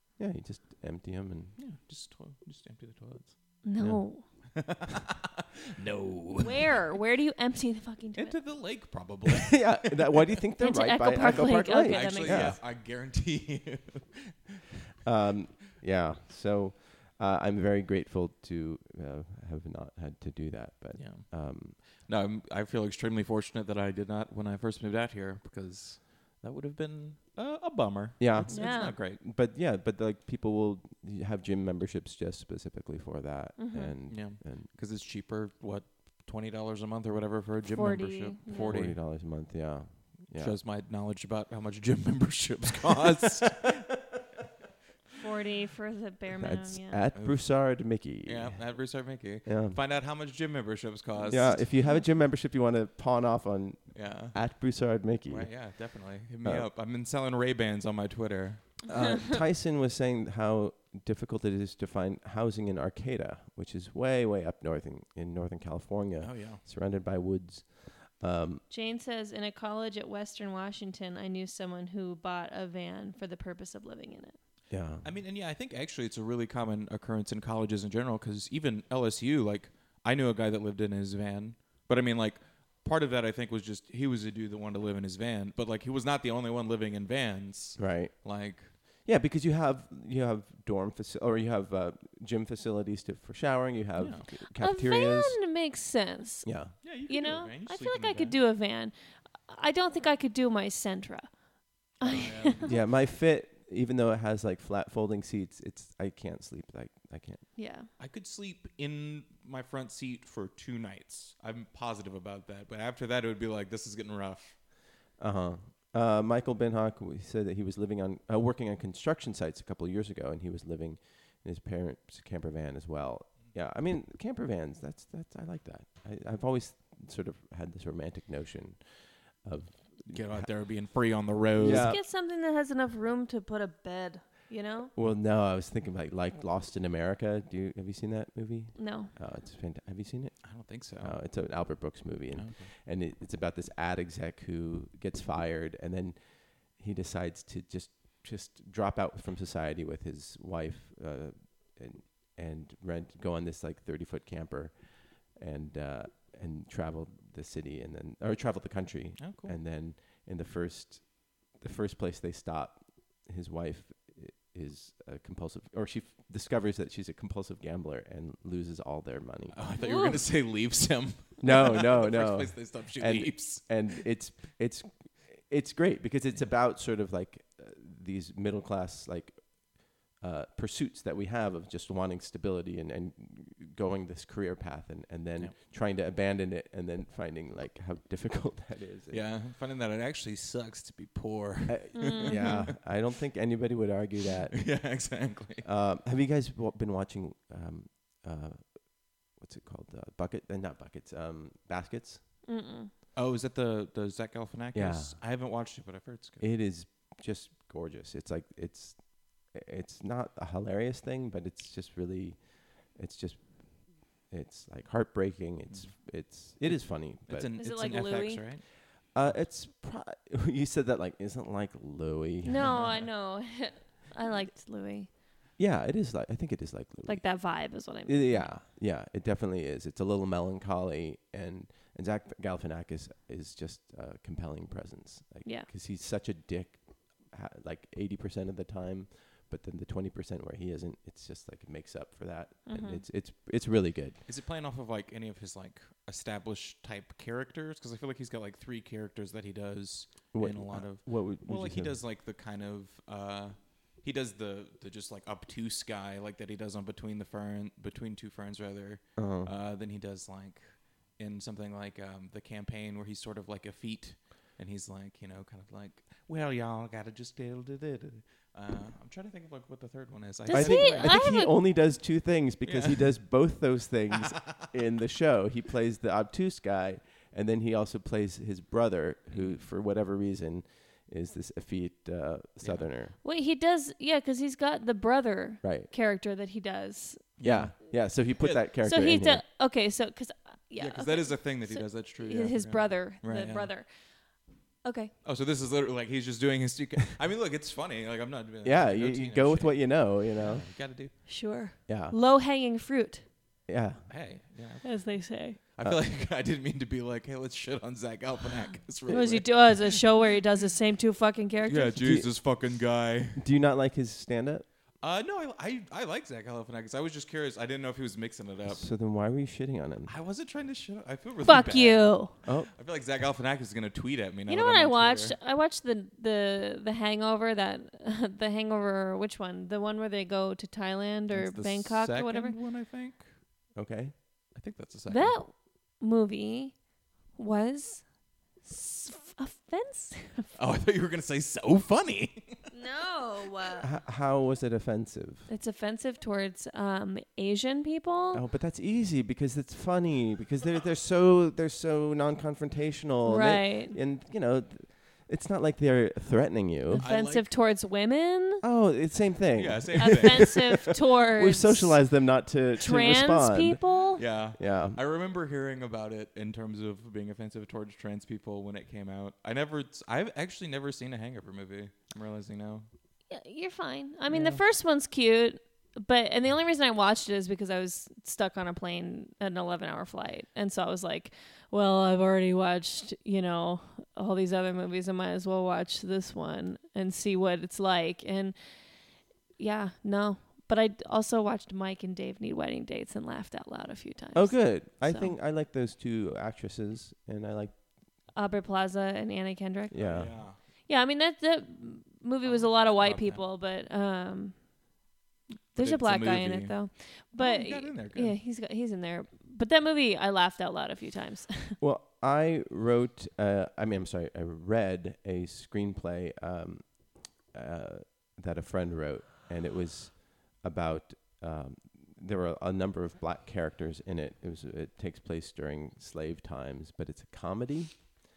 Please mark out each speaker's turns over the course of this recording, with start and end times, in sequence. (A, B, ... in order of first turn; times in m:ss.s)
0:00.2-0:01.5 A
0:01.6-0:03.6 B
0:03.6-0:04.2 C
0:04.5-0:06.8 B
0:06.4-0:08.4 C
0:08.2-0:10.4 B
0:09.2-0:12.6 A
0:10.6-0:12.6 C
0:11.2-0:14.6 B
0:15.0-0:21.8 A
0:20.9-0:29.2 B
0:28.2-0:34.7 A
0:28.5-0:29.0 C
0:33.6-0:34.0 C
0:34.1-0:39.0 B
0:37.7-0:38.8 C
0:38.6-0:40.6 A
0:40.3-0:43.9 B
0:43.2-0:43.6 A
0:45.2-0:47.0 C
0:46.4-0:48.6 A
0:47.1-0:51.6 B
0:49.4-0:49.8 A
0:51.1-0:52.0 C
0:51.3-0:55.7 A
0:53.9-0:54.6 B
0:55.2-0:58.9 B
0:56.4-0:56.7 A
0:58.9-1:08.6 A
1:06.2-1:06.6 B
1:08.7-1:14.4 C
1:14.7-1:15.0 A
1:15.0-1:28.8 B
1:27.8-1:35.4 A
1:34.0-1:34.2 B
1:34.6-1:41.3 C
1:36.4-1:36.8 A
1:36.8-1:38.4 B
1:42.0-1:42.7 C
1:42.0-1:42.7 B
1:42.6-1:47.4 A
1:47.6-1:47.9 C
1:48.0-1:54.6 B
1:55.2-2:10.4 A
2:10.0-2:11.9 B
2:11.6-2:12.0 A
2:11.6-2:14.9 C
2:15.0-2:49.6 A
2:18.8-2:19.1 C
2:20.4-2:21.7 B
2:22.4-2:22.7 B
2:39.2-2:39.6 B
2:49.5-2:54.0 B
2:49.8-2:50.2 C
2:51.4-3:09.2 A
3:09.1-3:12.7 B
3:11.7-3:15.1 A
3:12.0-3:12.7 C
3:14.5-3:15.6 B
3:15.6-3:22.2 A
3:22.5-3:22.9 C
3:23.1-3:26.5 B
3:24.7-3:25.2 A
3:26.4-3:37.5 A
3:37.3-3:39.4 B
3:37.6-3:38.5 C
3:39.0-3:42.8 A
3:42.4-3:45.1 C
3:42.6-3:43.1 B
3:45.6-4:04.2 A
3:47.0-3:48.5 C
4:02.7-4:03.0 C
4:04.2-4:31.4 B
4:10.3-4:12.0 A
4:19.2-4:19.5 A
4:30.4-4:31.5 C
4:30.5-4:43.1 A
4:32.6-4:33.4 B
4:34.4-4:34.7 B
4:39.3-4:39.6 B
4:42.6-4:42.9 B
4:43.2-4:47.3 C
4:45.6-4:45.9 A
4:47.4-4:48.6 B
4:47.4-4:49.4 A
4:48.8-4:53.9 C
4:50.8-4:53.7 B
4:54.8-4:55.1 C
4:55.2-5:01.1 B
4:58.6-5:00.6 A
5:01.2-5:03.2 C
5:01.9-5:02.1 A
5:03.7-5:04.0 A
5:04.1-5:10.0 B
5:04.8-5:05.6 C
5:09.1-5:09.5 A
5:09.1-5:12.0 C
5:11.7-5:13.4 B
5:12.0-5:12.3 A
5:13.4-5:14.6 A
5:15.0-5:18.8 B
5:18.7-5:20.1 A
5:20.1-5:25.4 B
5:21.4-5:22.3 C
5:22.4-5:22.7 A
5:24.5-5:32.5 C
5:31.3-5:33.3 B
5:33.8-5:34.1 A
5:34.5-5:35.4 B
5:35.1-5:36.8 C
5:37.3-5:38.0 C
5:38.6-5:40.5 C
5:40.5-5:42.7 B
5:42.7-5:43.9 C
5:43.8-5:45.5 A
5:45.5-5:48.4 C
5:48.3-5:57.1 A
5:53.2-5:54.0 C
5:56.9-5:58.6 C
5:57.0-5:57.5 B
5:58.6-6:03.8 A
5:59.5-6:00.6 B
6:00.0-6:02.0 C
6:02.8-6:04.2 C
6:04.2-6:12.8 B
6:04.6-6:05.0 A
6:13.3-6:28.7 C
6:14.3-6:14.6 B
6:29.6-6:35.3 C
6:34.3-6:37.7 A
6:38.3-6:44.6 C
6:39.9-6:40.4 A
6:40.0-6:40.6 B
6:42.4-6:43.4 B
6:45.7-6:51.8 C
6:45.8-6:48.4 B
6:51.8-7:08.0 A